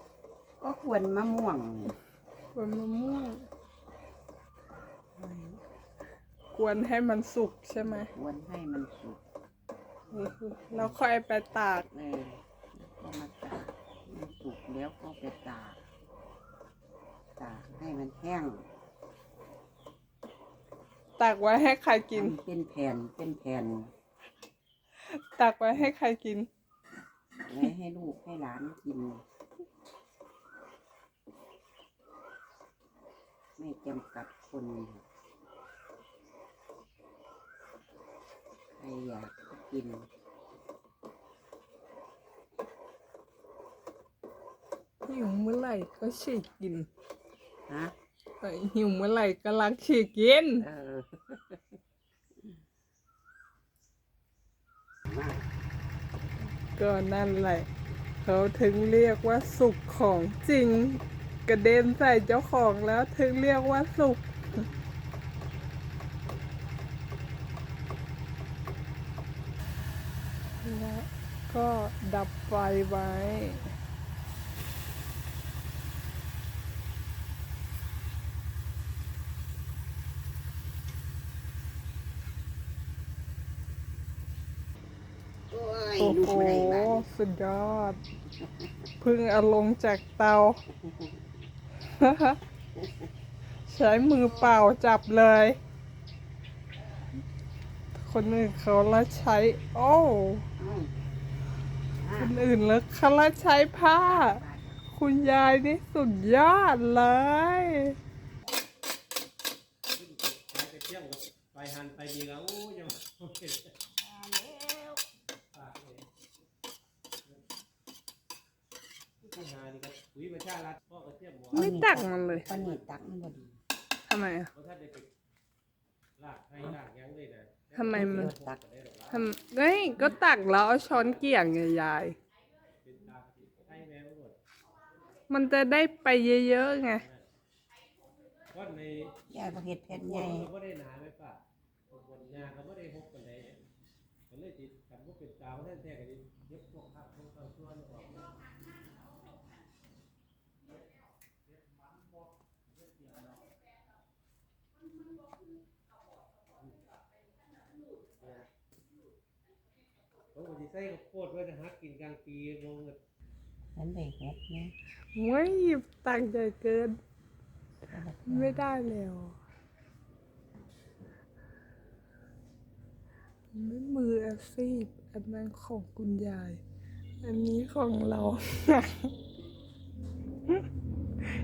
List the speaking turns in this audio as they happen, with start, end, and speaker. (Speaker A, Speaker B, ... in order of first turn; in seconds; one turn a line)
Speaker A: 0.6-1.9
Speaker B: 2.5-3.5
Speaker B: 5.2-5.6
Speaker B: 6.5-8.1
Speaker A: 7.8-9.2
Speaker B: 10.1-11.9
Speaker A: 11.9-15.8
Speaker A: 17.4-18.7
Speaker B: 21.2-22.3
Speaker A: 22.1-23.9
Speaker B: 25.1-26.5
Speaker A: 27.4-29.2
Speaker A: 33.6-35.0
Speaker A: 38.8-40.1
Speaker B: 45.1-46.9
Speaker A: 47.7-47.9
Speaker B: 48.4-50.6
Speaker A: 50.6-51.8
Speaker A: 55.1-55.5
Speaker B: 56.8-57.7
Speaker B: 58.2-64.3
Speaker B: 70.6-73.7
Speaker A: 85.5-87.0
Speaker B: 86.0-88.0
Speaker A: 88.4-88.7
Speaker B: 89.0-90.6
Speaker A: 90.8-91.3
Speaker B: 91.9-92.4
Speaker B: 93.7-95.6
Speaker A: 94.3-94.6
Speaker B: 98.0-100.4
Speaker A: 100.6-100.9
Speaker A: 102.0-102.4
Speaker B: 102.1-108.0
Speaker A: 103.7-104.8
Speaker C: 109.9-113.7
Speaker A: 114.1-115.0
Speaker C: 115.5-116.1
Speaker C: 119.2-122.9
Speaker B: 121.5-122.5
Speaker A: 121.5-123.5
Speaker B: 124.1-124.5
Speaker C: 124.5-125.1
Speaker C: 126.2-129.3
Speaker B: 127.8-128.3
Speaker A: 127.9-128.6
Speaker B: 129.1-132.2
Speaker C: 130.9-131.2
Speaker C: 132.8-134.4
Speaker B: 135.3-137.0
Speaker C: 137.0-137.3
Speaker C: 138.5-139.2
Speaker A: 139.3-140.5
Speaker C: 139.9-143.6
Speaker C: 144.3-148.3
Speaker C: 158.2-158.5
Speaker C: 160.3-163.0
Speaker A: 163.8-164.8
Speaker B: 165.2-167.0
Speaker A: 167.9-168.7
Speaker B: 168.3-169.4
Speaker B: 173.5-176.6
Speaker B: 177.2-179.1